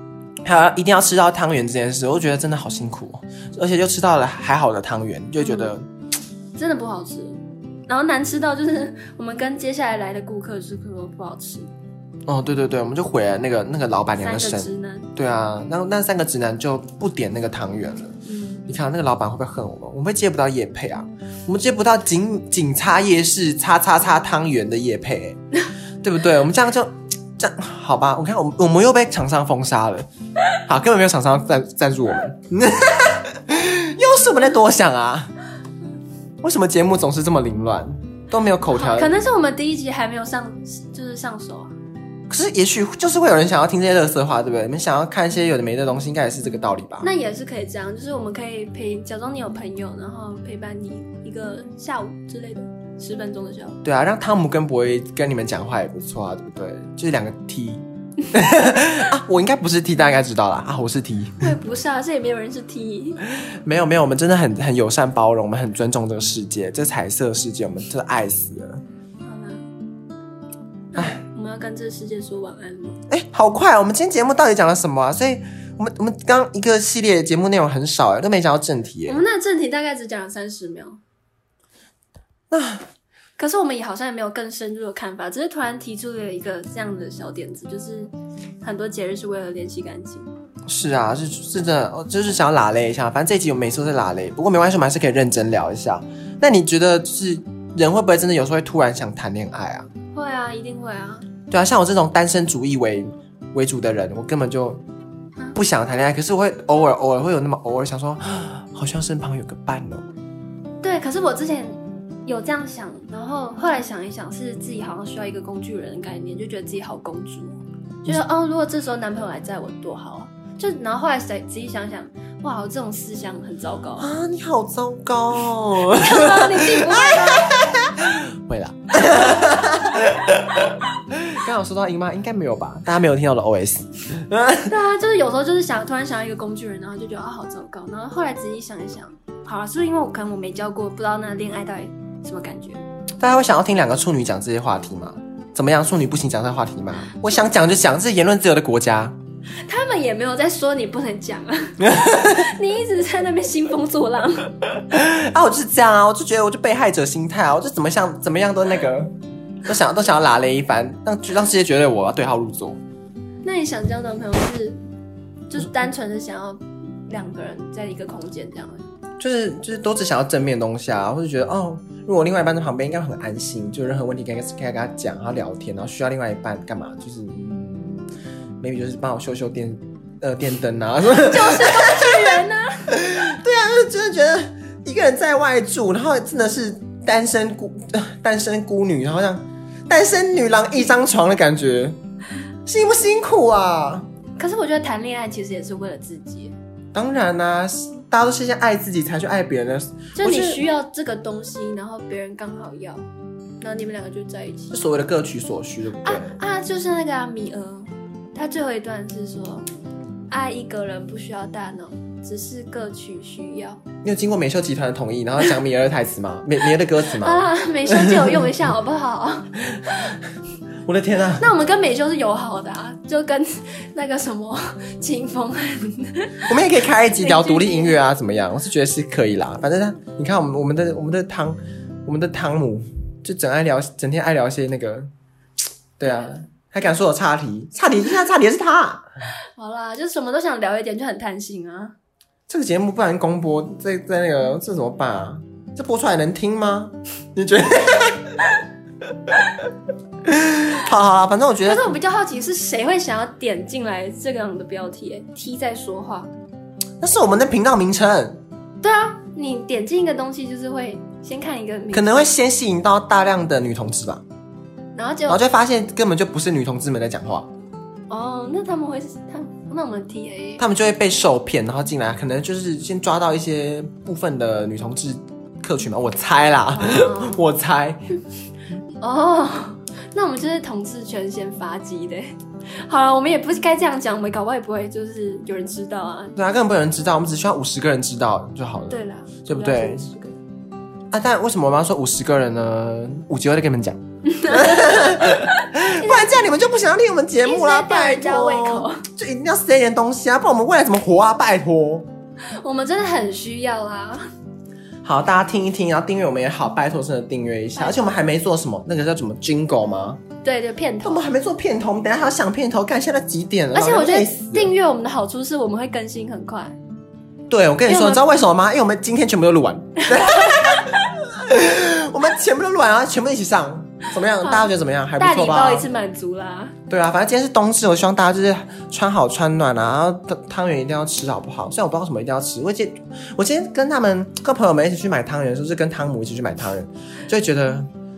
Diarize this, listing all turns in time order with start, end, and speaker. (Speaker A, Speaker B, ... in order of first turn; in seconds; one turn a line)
Speaker A: 0.4-5.9
Speaker B: 5.4-5.7
Speaker B: 6.5-11.7
Speaker A: 12.3-18.1
Speaker B: 14.2-15.1
Speaker B: 18.2-18.7
Speaker A: 18.7-25.4
Speaker A: 26.0-30.1
Speaker A: 30.6-35.3
Speaker A: 36.4-39.1
Speaker B: 38.7-41.7
Speaker A: 42.3-47.1
Speaker B: 47.0-53.8
Speaker A: 53.8-61.5
Speaker B: 61.4-63.2
Speaker A: 63.2-68.8
Speaker B: 69.2-69.6
Speaker B: 70.9-73.0
Speaker A: 70.9-71.2
Speaker A: 73.1-79.2
Speaker B: 79.0-81.0
Speaker A: 82.5-82.8
Speaker B: 83.4-90.3
Speaker A: 90.7-99.9
Speaker B: 100.1-101.3
Speaker A: 101.5-104.8
Speaker A: 105.5-110.1
Speaker B: 110.8-124.1
Speaker A: 124.0-134.7
Speaker B: 125.9-127.9
Speaker B: 134.7-142.8
Speaker A: 143.2-149.2
Speaker B: 149.6-154.6
Speaker A: 151.8-152.4
Speaker A: 154.9-159.1
Speaker A: 159.6-162.8
Speaker B: 163.4-164.8
Speaker B: 165.5-168.9
Speaker A: 169.2-178.1
Speaker A: 178.6-192.0
Speaker B: 181.2-183.0
Speaker A: 192.7-194.1
Speaker B: 194.4-196.5
Speaker A: 196.9-200.6
Speaker B: 200.2-203.0
Speaker B: 203.6-204.7
Speaker A: 204.7-206.4
Speaker B: 206.0-209.7
Speaker B: 210.3-213.8
Speaker A: 214.0-218.5
Speaker B: 217.0-220.2
Speaker A: 220.8-221.5
Speaker B: 221.4-226.5
Speaker A: 226.4-235.1
Speaker B: 227.1-228.0
Speaker A: 236.0-239.1
Speaker B: 239.6-241.9
Speaker A: 242.5-248.6
Speaker A: 250.2-252.0
Speaker B: 251.6-256.3
Speaker A: 257.0-258.4
Speaker B: 258.8-262.3
Speaker A: 261.9-264.2
Speaker B: 264.9-265.5
Speaker A: 265.3-267.5
Speaker B: 268.1-270.6
Speaker A: 270.6-278.0
Speaker B: 276.7-277.4
Speaker B: 278.9-286.3
Speaker A: 286.4-290.1
Speaker B: 288.9-290.4
Speaker A: 291.1-302.1
Speaker B: 294.2-296.7
Speaker B: 297.4-299.0
Speaker B: 302.6-304.2
Speaker A: 305.0-310.3
Speaker B: 307.8-308.2
Speaker B: 310.4-311.2
Speaker A: 311.0-314.7
Speaker B: 313.7-316.8
Speaker A: 317.5-325.9
Speaker B: 317.9-318.3
Speaker B: 320.0-321.0
Speaker B: 324.2-326.8
Speaker A: 326.9-337.9